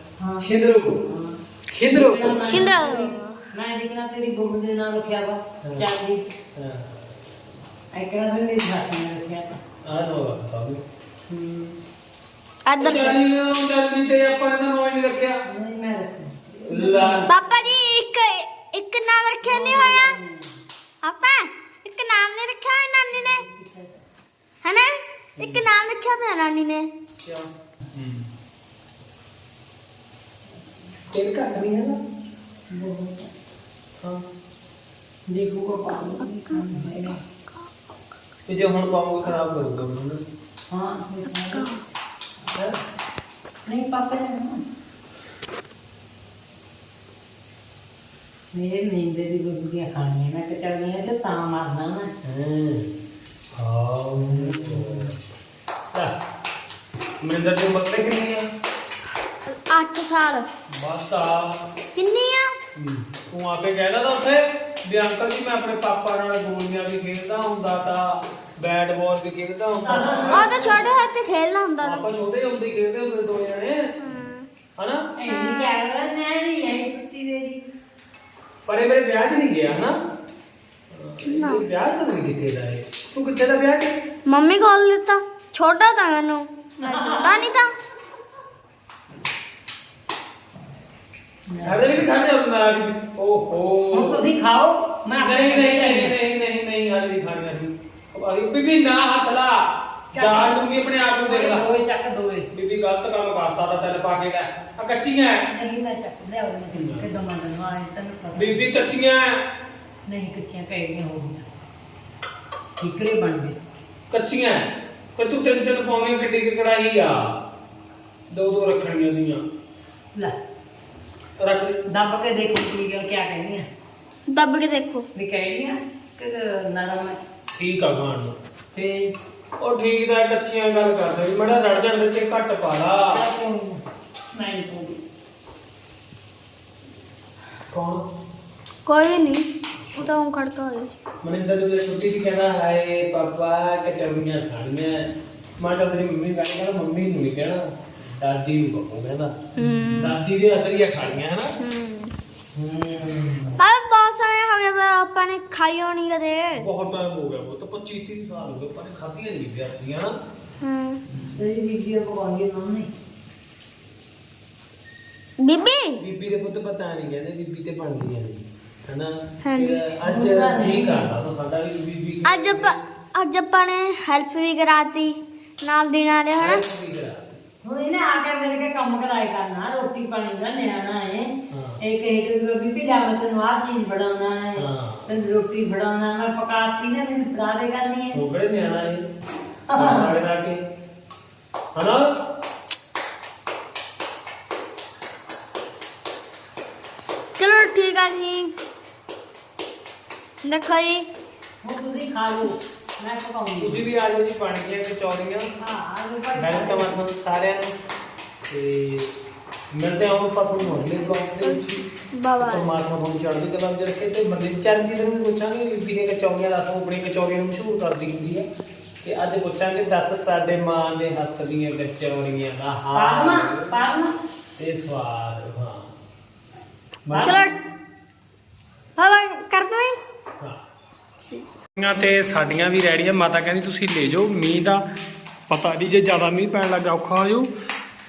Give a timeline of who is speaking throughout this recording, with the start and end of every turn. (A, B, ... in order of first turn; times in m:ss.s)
0:00.2-0:00.4 A
0:00.4-0:01.0 B
0:01.0-0:01.4 A
0:01.7-0:02.7 B
0:01.9-0:06.3 A
0:02.5-0:03.4 C
0:06.6-0:07.1 B
0:07.9-0:09.6 A
0:09.8-0:10.8 B
0:11.3-0:11.7 A
0:12.6-0:13.2 C
0:12.8-0:15.4 B
0:15.4-0:17.7 A
0:16.7-0:17.3 B
0:17.3-0:20.1 C
0:19.4-0:20.5 A
0:21.0-0:23.4 C
0:23.1-0:24.0 A
0:24.6-0:26.9 C
0:25.4-0:25.7 B
0:27.2-0:28.3 B
0:31.1-0:32.0 B
0:32.7-0:33.3 A
0:35.3-0:37.2 A
0:38.5-0:40.2 B
0:40.7-0:41.7 A
0:41.5-0:41.8 C
0:43.6-0:44.6 A
0:48.5-0:52.1 A
0:52.2-0:52.9 B
0:53.5-0:55.2 B
0:54.3-0:55.1 A
0:57.2-0:58.4 B
0:59.4-1:00.5 C
1:00.7-1:01.6 B
1:01.9-1:02.5 C
1:02.7-1:10.8 B
1:09.8-1:10.9 A
1:10.3-1:12.0 C
1:11.8-1:13.9 B
1:14.0-1:14.5 C
1:14.8-1:15.0 B
1:15.2-1:17.6 A
1:15.3-1:15.7 C
1:18.6-1:20.0 B
1:20.9-1:23.9 B
1:21.2-1:21.6 C
1:24.3-1:27.7 C
1:26.8-1:27.5 A
1:31.5-1:31.9 A
1:31.6-1:34.3 B
1:33.9-1:36.2 A
1:35.2-1:41.7 B
1:40.1-1:40.6 A
1:41.2-1:42.5 A
1:42.5-1:45.5 B
1:45.5-1:48.6 A
1:46.7-1:47.1 B
1:48.4-1:49.4 B
1:50.1-1:51.4 A
1:52.8-1:53.6 A
1:54.1-1:57.4 B
1:58.3-1:59.4 B
2:01.4-2:01.8 B
2:01.9-2:03.7 A
2:04.3-2:05.0 C
2:05.1-2:07.2 A
2:07.5-2:08.4 B
2:08.7-2:09.1 A
2:09.6-2:13.2 B
2:13.1-2:15.0 A
2:17.7-2:18.0 B
2:18.8-2:20.9 C
2:21.2-2:31.5 B
2:29.6-2:30.2 C
2:31.6-2:32.1 C
2:32.5-2:33.6 B
2:33.6-2:36.7 C
2:36.5-2:40.2 B
2:40.6-2:41.0 C
2:41.1-2:41.4 B
2:41.3-2:42.9 A
2:45.4-2:46.0 C
2:46.0-2:52.8 B
2:49.4-2:49.9 C
2:50.0-2:51.1 A
2:52.2-2:56.6 C
2:56.4-2:57.4 B
2:57.6-3:08.2 A
3:01.5-3:01.8 B
3:04.6-3:05.1 B
3:08.1-3:09.0 B
3:09.7-3:10.1 A
3:09.7-3:10.6 B
3:11.7-3:12.1 B
3:17.4-3:18.5 C
3:20.4-3:21.1 C
3:21.6-3:23.8 A
3:23.6-3:25.5 B
3:25.6-3:27.0 A
3:26.4-3:27.7 B
3:28.5-3:29.1 B
3:29.7-3:31.8 B
3:31.4-3:32.7 C
3:32.4-3:38.4 B
3:39.0-3:43.7 B
3:42.9-3:44.2 A
3:44.6-3:45.9 B
3:47.1-3:47.4 B
3:47.1-3:47.4 A
3:47.2-3:47.5 C
3:49.0-3:50.0 C
3:51.8-3:54.8 B
3:55.5-3:57.5 B